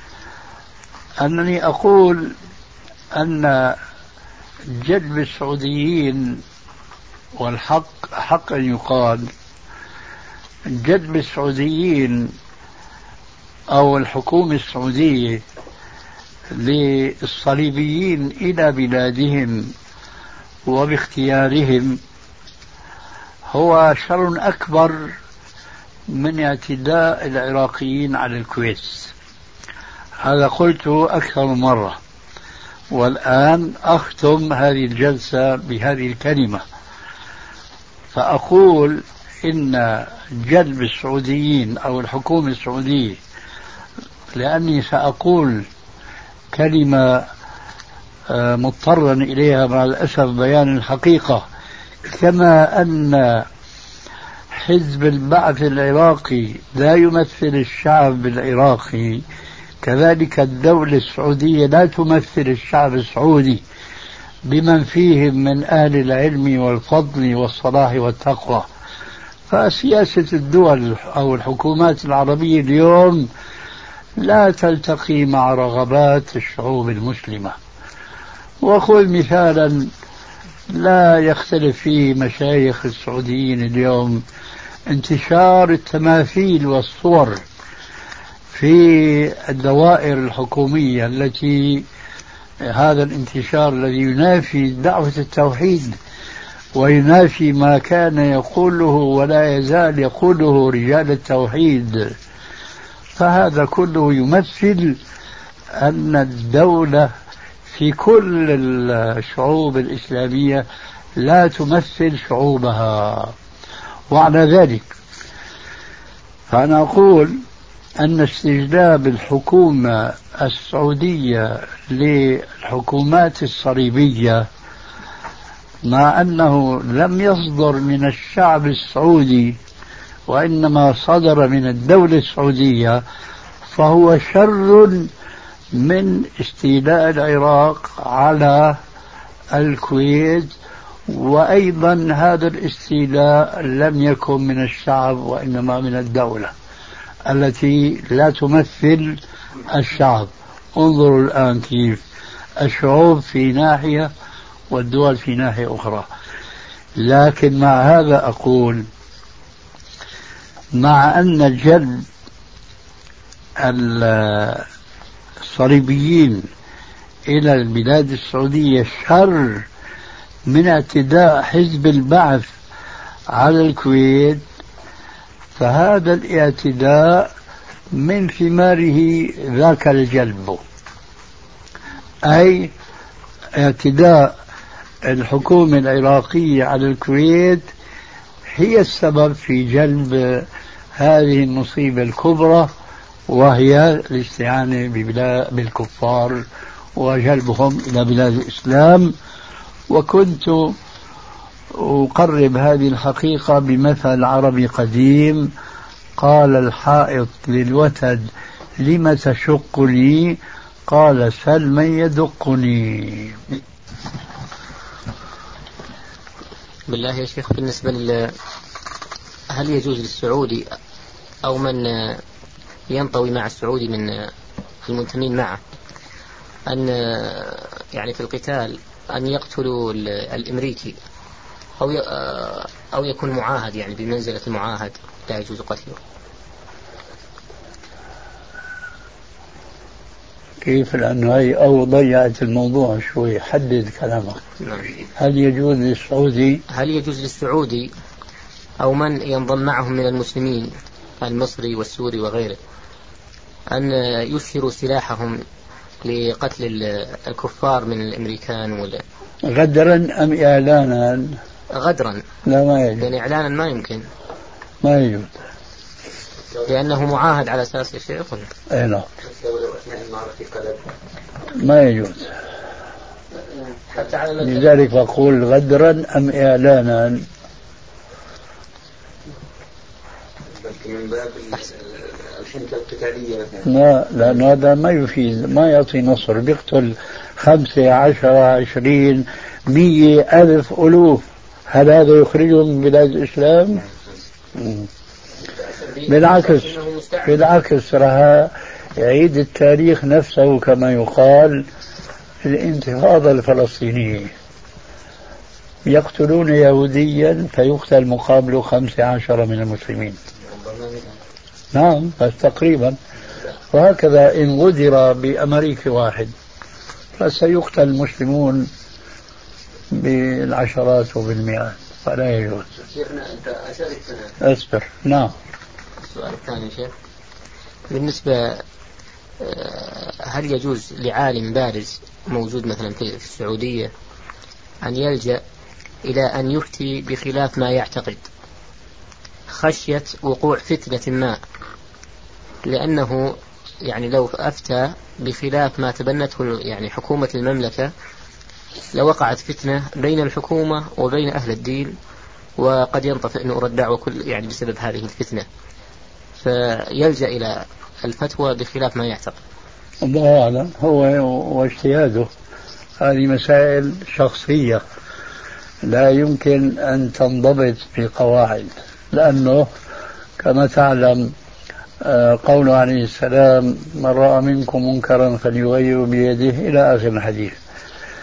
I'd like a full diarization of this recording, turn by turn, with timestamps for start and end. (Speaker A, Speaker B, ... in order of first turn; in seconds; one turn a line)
Speaker A: 1.2-2.3
Speaker A: 3.1-3.8
Speaker A: 4.7-6.4
Speaker A: 7.4-9.3
Speaker A: 10.7-12.3
Speaker A: 13.7-15.4
Speaker A: 16.5-19.7
Speaker A: 20.7-22.0
Speaker A: 23.5-25.1
Speaker A: 26.1-29.1
Speaker A: 30.2-32.0
Speaker A: 32.9-36.6
Speaker A: 38.1-43.2
Speaker A: 44.3-45.6
Speaker A: 46.5-47.2
Speaker A: 48.3-51.5
Speaker A: 52.1-53.5
Speaker A: 54.5-59.2
Speaker A: 59.8-63.6
Speaker A: 64.5-68.7
Speaker A: 69.5-73.3
Speaker A: 74.2-77.6
Speaker A: 78.6-79.9
Speaker A: 80.7-84.2
Speaker A: 84.9-87.4
Speaker A: 88.5-91.8
Speaker A: 92.6-96.0
Speaker A: 96.7-102.1
Speaker A: 103.2-105.0
Speaker A: 105.8-107.1
Speaker A: 107.7-110.6
Speaker A: 111.2-113.3
Speaker A: 114.1-114.9
Speaker A: 116.5-117.4
Speaker A: 118.0-124.5
Speaker A: 125.8-129.6
Speaker A: 130.3-133.0
Speaker A: 133.7-135.1
Speaker A: 135.7-138.8
Speaker A: 139.5-140.5
Speaker A: 141.1-146.5
Speaker A: 147.2-152.0
Speaker A: 152.6-154.1
Speaker A: 154.7-156.1
Speaker A: 157.0-158.9
Speaker A: 160.8-162.0
Speaker A: 163.6-164.6
Speaker A: 165.4-166.5
Speaker A: 167.3-169.6
Speaker A: 170.5-172.5
Speaker A: 173.3-174.4
Speaker A: 175.6-177.3
Speaker A: 177.9-180.6
Speaker A: 182.2-182.7
Speaker A: 183.5-184.3
Speaker A: 185.0-187.7
Speaker A: 188.5-192.7
Speaker A: 193.3-196.4
Speaker A: 196.9-199.1
Speaker A: 199.9-200.7
Speaker A: 201.7-205.5
Speaker A: 206.2-208.3
Speaker A: 208.8-213.4
Speaker B: 216.9-218.3
Speaker B: 219.5-220.7
Speaker B: 221.4-222.2
Speaker B: 222.9-224.3
Speaker B: 224.8-225.6
Speaker B: 226.7-231.0
Speaker B: 231.8-236.0
Speaker A: 240.6-244.4
Speaker A: 245.2-246.6
Speaker B: 246.7-247.9
Speaker B: 248.8-252.6
Speaker B: 253.7-255.4
Speaker B: 256.0-259.0
Speaker A: 259.4-261.4
Speaker B: 261.7-262.2
Speaker A: 262.4-263.1
Speaker B: 263.0-264.1
Speaker A: 264.8-265.3
Speaker B: 266.6-268.5
Speaker A: 268.7-269.1
Speaker C: 269.4-270.8
Speaker A: 271.6-272.3
Speaker B: 273.9-274.6
Speaker A: 274.4-277.2
Speaker C: 280.5-283.7
Speaker A: 283.6-293.8
Speaker A: 294.6-294.9
Speaker B: 295.6-297.3
Speaker A: 296.1-301.7
Speaker A: 302.4-304.3
Speaker A: 305.8-310.2
Speaker A: 311.7-313.0
Speaker A: 313.7-316.3
Speaker A: 317.2-318.7
Speaker A: 319.9-322.7
Speaker B: 322.9-324.3
Speaker A: 324.4-325.3
Speaker B: 326.1-326.9
Speaker B: 327.9-328.6
Speaker B: 329.4-333.9
Speaker B: 334.8-335.4
Speaker B: 336.0-338.3
Speaker B: 339.5-341.4
Speaker B: 342.6-347.9
Speaker B: 348.9-351.9
Speaker B: 352.6-355.5
Speaker B: 356.4-359.4
Speaker A: 360.0-362.3
Speaker A: 363.0-364.8
Speaker A: 365.8-369.7
Speaker A: 370.4-371.3
Speaker A: 372.0-377.6